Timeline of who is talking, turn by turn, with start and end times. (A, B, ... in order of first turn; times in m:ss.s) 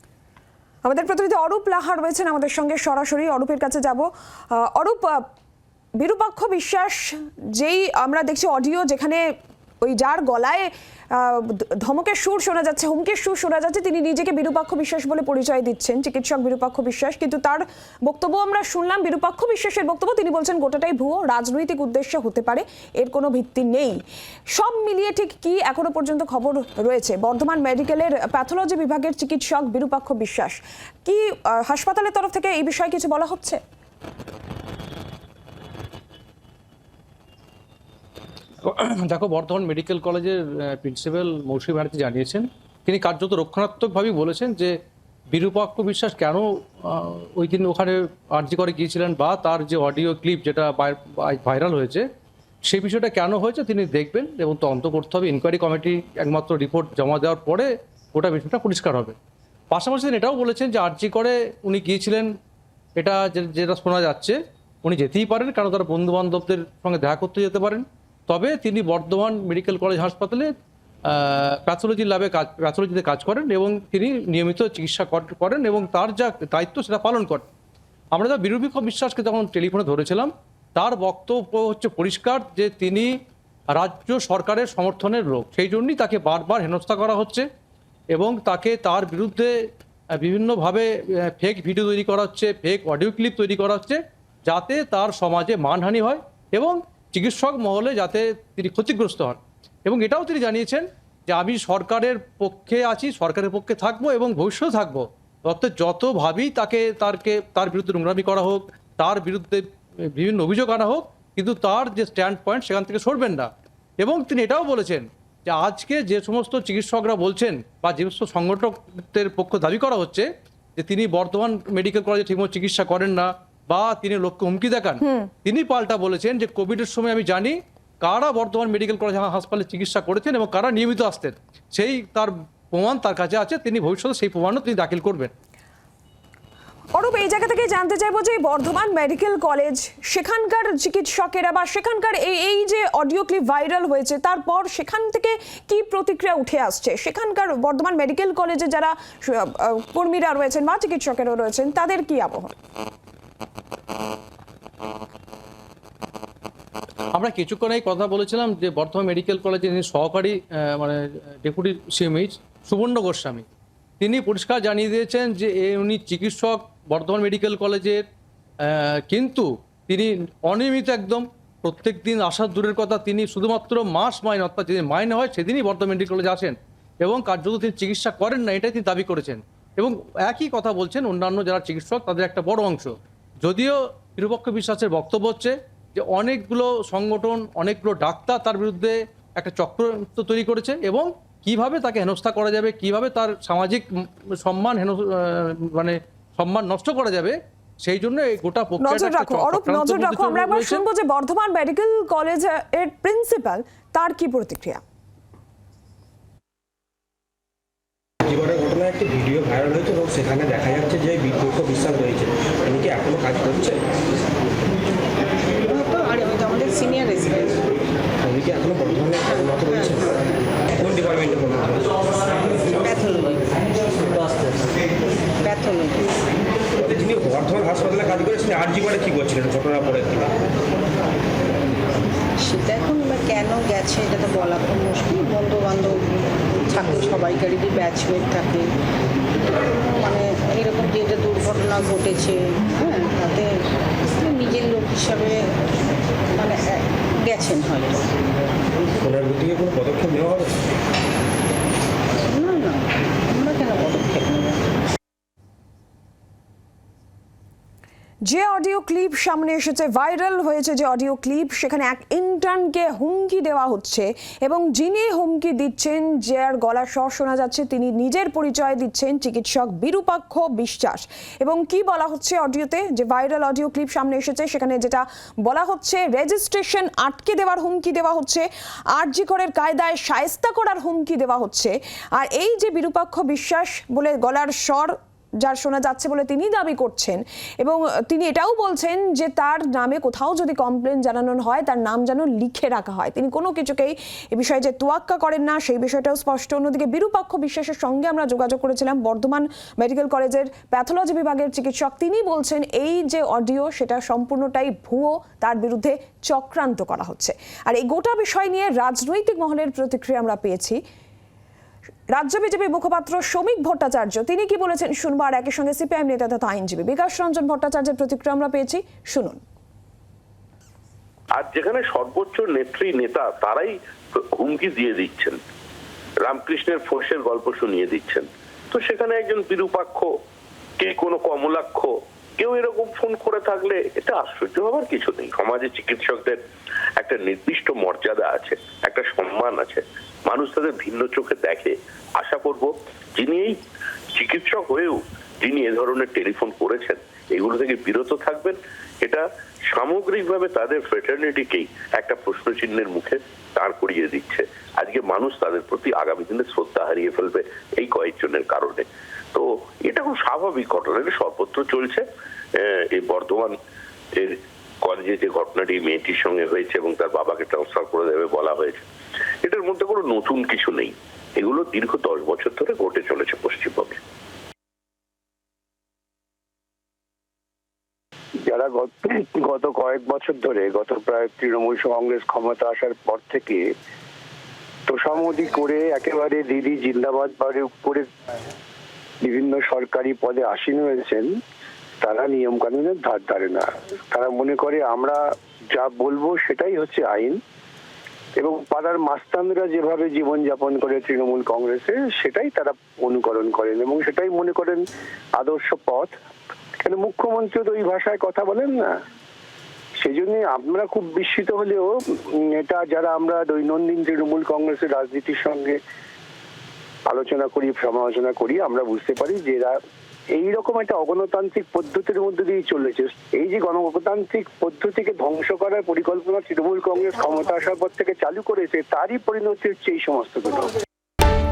0:00.8-0:05.2 A
0:06.0-0:09.2 A
0:09.8-0:24.0 A
0:24.5-0:33.6 A
0:38.6-0:44.7 B
0:45.3-0:52.0 B
0:52.6-0:59.2 B
0:59.7-1:02.3 B
1:03.0-1:10.5 B
1:11.0-1:17.4 B
1:18.1-1:23.1 B
1:23.7-1:27.4 B
1:28.1-1:29.5 B
1:30.2-1:53.5 B
1:54.0-2:15.3 B
2:05.0-2:05.3 A
2:17.0-2:32.5 A
2:37.1-2:43.4 B
2:44.0-2:48.0 B
2:48.6-3:20.8 B
3:18.8-3:24.8 A
3:28.3-3:33.8 C
3:35.6-3:37.6 D
3:38.2-3:40.2 C
3:39.6-3:39.9 D
3:40.8-3:41.9 C
3:42.7-3:44.1 D
3:45.3-3:46.1 D
3:46.8-3:50.4 C
3:52.4-3:58.7 D
3:59.7-4:05.6 D
4:06.3-4:08.1 D
4:09.0-4:10.5 C
4:12.2-4:14.6 D
4:18.3-5:10.8 A
5:12.1-5:19.4 A
5:21.3-5:25.4 E
5:26.2-5:30.1 E
5:30.8-5:36.4 E
5:37.0-5:43.6 E
5:44.2-6:02.0 E
6:02.6-6:03.5 E
6:04.2-6:08.8 E
6:09.4-6:14.0 E
6:18.4-6:23.7 F
6:24.9-6:28.1 F
6:29.2-6:31.3 F
6:32.0-6:35.2 F
6:35.7-6:37.4 F
6:38.4-6:44.8 F
6:45.4-6:46.1 F
6:46.8-6:48.9 F
6:50.0-6:55.8 F
6:57.1-6:59.7 F
7:00.4-7:10.7 F